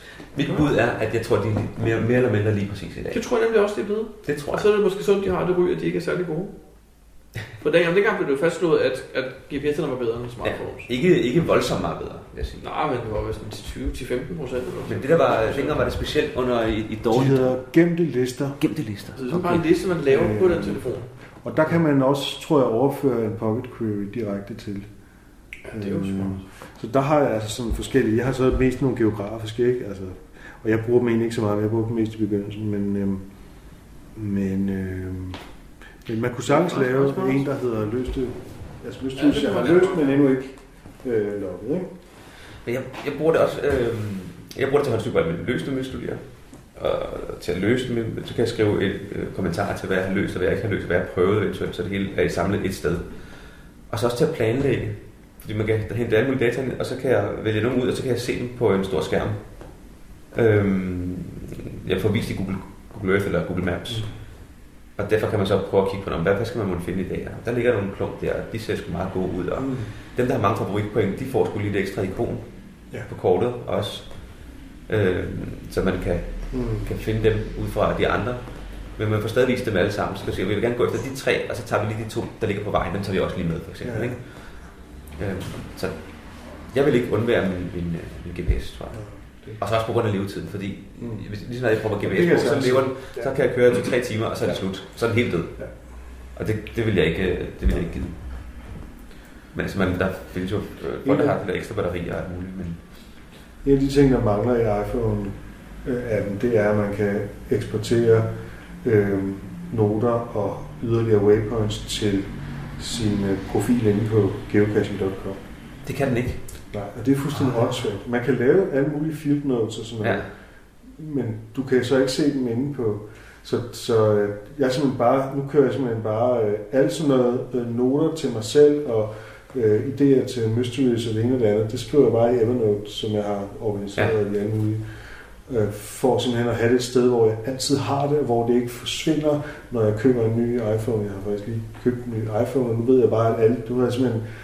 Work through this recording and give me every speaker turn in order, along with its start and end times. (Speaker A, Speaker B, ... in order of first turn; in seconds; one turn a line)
Speaker A: 0.3-3.2
Speaker B: 0.4-0.7
Speaker B: 3.1-6.5
Speaker A: 4.2-4.7
Speaker B: 7.6-10.9
Speaker A: 10.4-12.7
Speaker B: 12.6-15.9
Speaker A: 14.9-17.6
Speaker C: 17.1-18.6
Speaker A: 18.6-19.6
Speaker B: 19.2-21.1
Speaker C: 20.1-20.9
Speaker C: 21.4-24.9
Speaker B: 25.7-26.4
Speaker C: 25.7-33.2
Speaker C: 34.1-35.4
Speaker C: 36.1-41.9
Speaker B: 36.5-37.5
Speaker B: 39.2-40.3
Speaker A: 42.6-46.2
Speaker A: 46.8-53.1
Speaker A: 53.9-59.4
Speaker A: 60.3-64.1
Speaker C: 63.9-64.1
Speaker A: 65.0-72.5
Speaker C: 69.6-69.9
Speaker A: 73.0-74.2
Speaker A: 74.9-84.6
Speaker C: 76.5-76.9
Speaker C: 83.8-84.2
Speaker A: 85.2-89.0
Speaker C: 88.9-89.6
Speaker A: 89.6-95.6
Speaker C: 91.0-91.3
Speaker C: 92.0-93.3
Speaker A: 96.3-98.2
Speaker A: 99.5-102.8
Speaker C: 101.0-101.4
Speaker C: 103.6-115.4
Speaker A: 115.8-116.4
Speaker C: 116.7-120.3
Speaker A: 120.0-120.3
Speaker C: 120.9-134.8
Speaker C: 135.5-144.3